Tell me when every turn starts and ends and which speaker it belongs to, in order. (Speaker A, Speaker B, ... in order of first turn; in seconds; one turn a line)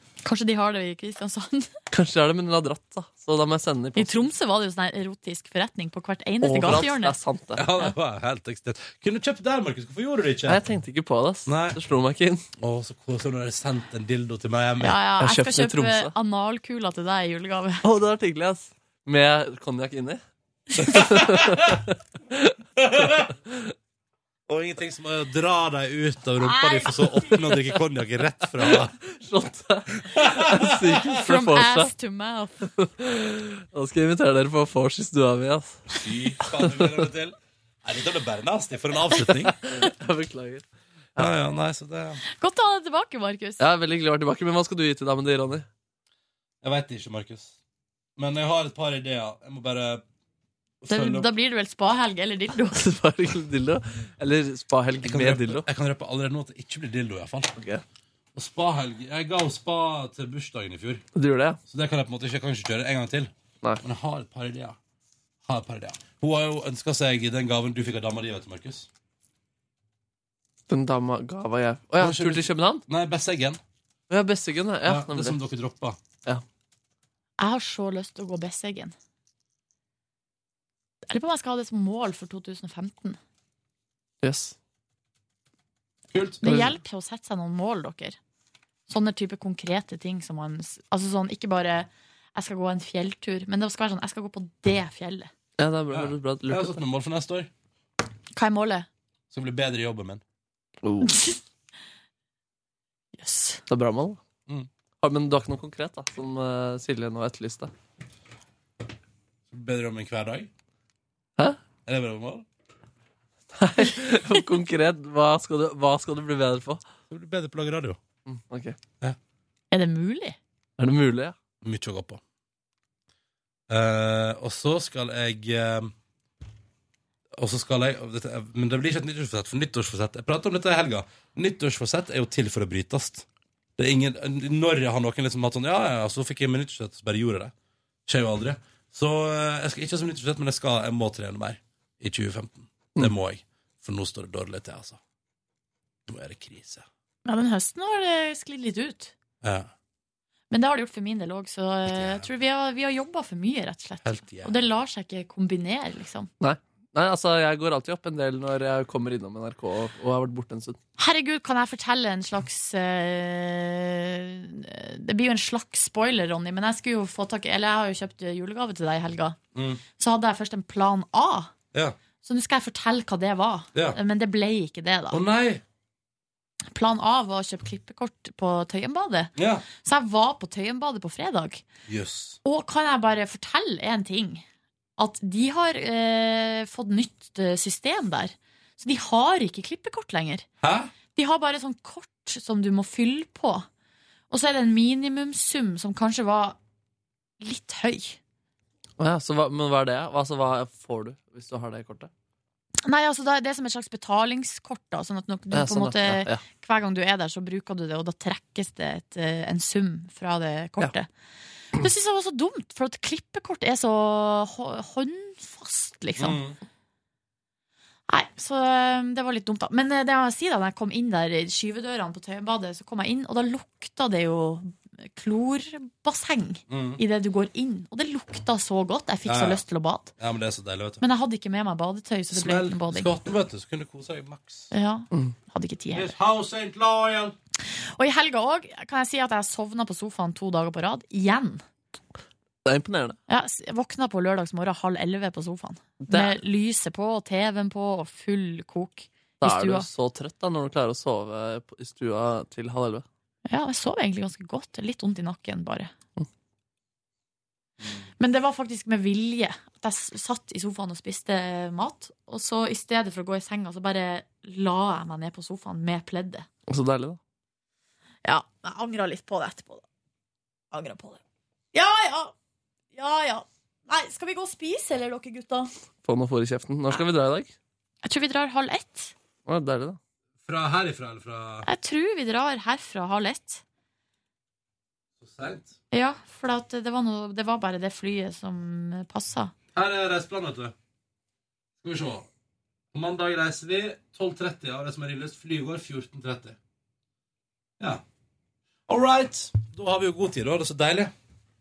Speaker A: 0.2-1.7
Speaker B: 1.9-4.2
Speaker A: 4.0-7.2
Speaker B: 6.4-7.7
Speaker C: 7.5-10.6
Speaker B: 10.4-12.4
Speaker C: 11.4-11.8
Speaker C: 12.6-15.0
Speaker A: 14.8-17.8
Speaker B: 15.2-16.1
Speaker B: 17.8-20.2
Speaker C: 20.8-21.8
Speaker B: 20.8-22.6
Speaker C: 22.8-23.3
Speaker B: 23.1-23.7
Speaker C: 24.5-28.9
Speaker A: 26.5-26.9
Speaker B: 26.9-27.8
Speaker B: 28.6-31.9
Speaker C: 30.1-31.1
Speaker A: 31.0-32.7
Speaker B: 32.8-35.8
Speaker C: 35.9-39.5
Speaker B: 36.4-37.0
Speaker B: 39.3-41.3
Speaker C: 41.2-42.2
Speaker A: 42.3-43.6
Speaker B: 43.6-45.6
Speaker C: 46.6-47.5
Speaker C: 48.2-50.0
Speaker C: 50.8-51.3
Speaker A: 50.9-52.8
Speaker B: 52.7-55.6
Speaker C: 55.0-57.5
Speaker B: 57.5-57.8
Speaker C: 58.3-61.0
Speaker B: 61.1-61.6
Speaker C: 61.7-63.3
Speaker C: 63.8-64.8
Speaker C: 65.4-68.9
Speaker B: 70.7-72.8
Speaker C: 72.0-73.6
Speaker B: 74.1-75.4
Speaker C: 74.8-76.0
Speaker A: 77.4-78.9
Speaker A: 81.1-83.2
Speaker B: 84.2-84.5
Speaker C: 86.1-86.4
Speaker A: 86.4-88.2
Speaker B: 86.4-86.8
Speaker A: 88.9-95.3
Speaker B: 95.6-96.8
Speaker C: 95.9-97.5
Speaker A: 98.3-98.9
Speaker C: 99.3-100.2
Speaker B: 100.8-101.2
Speaker A: 101.0-101.4
Speaker A: 103.2-103.6
Speaker B: 103.7-104.2
Speaker B: 105.0-107.7
Speaker C: 109.5-110.5
Speaker C: 111.8-112.5
Speaker B: 113.5-116.8
Speaker C: 117.1-118.0
Speaker B: 118.2-118.8
Speaker A: 119.7-120.4
Speaker B: 120.8-121.3
Speaker C: 121.6-122.2
Speaker C: 123.7-125.9
Speaker C: 127.3-137.5
Speaker C: 138.1-145.0
Speaker C: 146.1-146.8
Speaker A: 147.2-149.1
Speaker C: 149.4-149.7
Speaker A: 150.5-156.3
Speaker C: 151.9-152.2
Speaker C: 154.0-154.6
Speaker B: 156.4-160.8
Speaker A: 161.0-169.4
Speaker C: 169.5-169.8
Speaker A: 170.0-171.5
Speaker A: 172.2-175.2
Speaker C: 175.1-175.6
Speaker A: 176.7-179.3
Speaker C: 179.3-179.6
Speaker A: 179.8-181.6
Speaker C: 181.9-182.4
Speaker A: 182.4-184.4
Speaker A: 185.0-190.4
Speaker C: 190.6-190.9
Speaker A: 191.1-193.7
Speaker A: 194.3-196.6
Speaker A: 197.4-198.2
Speaker B: 199.0-202.1
Speaker A: 202.8-211.1
Speaker B: 205.5-206.4
Speaker A: 211.8-216.4
Speaker C: 216.2-216.6
Speaker A: 218.1-230.1
Speaker C: 226.7-227.0
Speaker C: 229.2-229.6
Speaker C: 230.2-231.0
Speaker A: 231.0-233.1
Speaker C: 232.3-234.7
Speaker A: 234.7-236.1
Speaker C: 235.9-237.3
Speaker A: 238.0-241.6
Speaker B: 242.7-243.2
Speaker A: 243.3-249.9
Speaker B: 246.0-246.4
Speaker B: 249.4-253.0
Speaker A: 253.5-255.9
Speaker A: 258.2-266.5
Speaker B: 266.7-267.2
Speaker A: 268.2-269.8
Speaker A: 270.7-271.2
Speaker A: 271.7-272.3
Speaker A: 272.9-275.7
Speaker B: 276.0-277.5
Speaker A: 278.0-279.1
Speaker B: 279.4-280.0
Speaker C: 280.4-281.7
Speaker A: 281.6-283.6
Speaker C: 285.2-285.7
Speaker A: 285.9-289.5
Speaker C: 289.7-290.7
Speaker C: 291.8-292.3
Speaker C: 292.9-296.6
Speaker C: 298.9-301.1